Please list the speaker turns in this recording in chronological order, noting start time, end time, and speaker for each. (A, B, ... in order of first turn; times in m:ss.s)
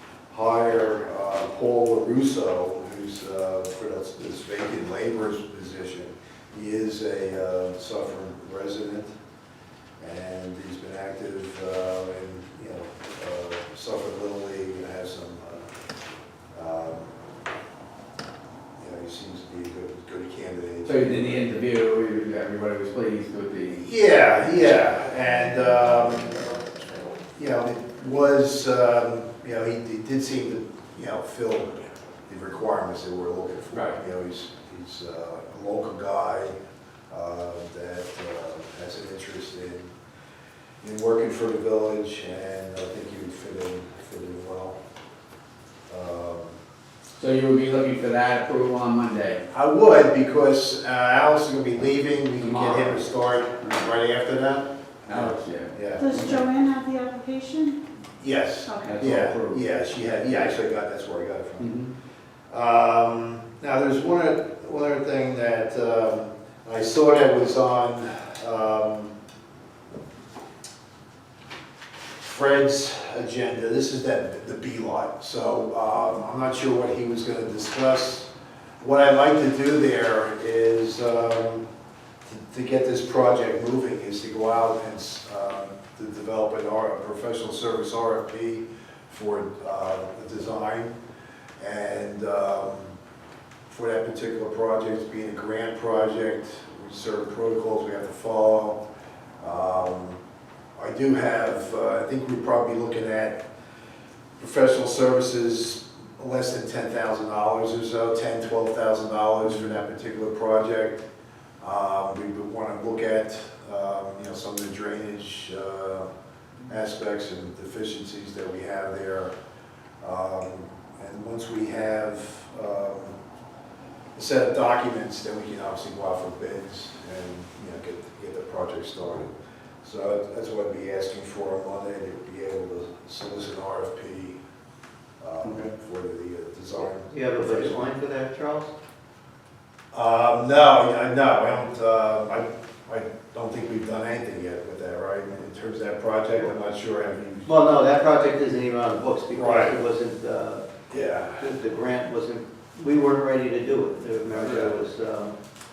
0:00.3-0:09.1 A
0:10.0-0:15.7 A
0:16.5-0:17.1 A
0:18.8-0:21.5 A
0:20.8-0:23.9 B
0:23.7-0:26.5 A
0:27.3-0:36.6 A
0:33.7-0:34.0 B
0:37.1-0:39.9 A
0:40.8-0:44.8 A
0:45.9-0:46.6 A
0:47.2-0:49.4 B
0:49.5-0:56.5 A
0:52.4-0:53.0 B
0:55.1-0:56.4 B
0:56.0-0:57.8 C
0:58.2-1:01.8 A
0:58.6-0:59.1 C
0:58.8-0:59.6 B
1:01.6-1:01.9 B
1:02.5-1:09.2 A
1:12.2-1:18.3 A
1:18.8-1:21.6 A
1:22.2-1:31.0 A
1:31.6-1:33.0 A
1:33.7-1:38.8 A
1:39.4-1:40.2 A
1:40.8-1:43.4 A
1:44.4-1:51.1 A
1:51.6-1:56.1 A
1:56.7-1:59.3 A
2:00.0-2:03.2 A
2:04.2-2:09.3 A
2:09.8-2:14.4 A
2:15.2-2:17.9 A
2:15.4-2:15.7 B
2:17.1-2:18.7 D
2:19.9-2:27.5 A
2:27.5-2:30.7 D
2:29.4-2:29.8 A
2:30.9-2:31.4 A
2:31.3-2:35.3 D
2:34.3-2:34.8 A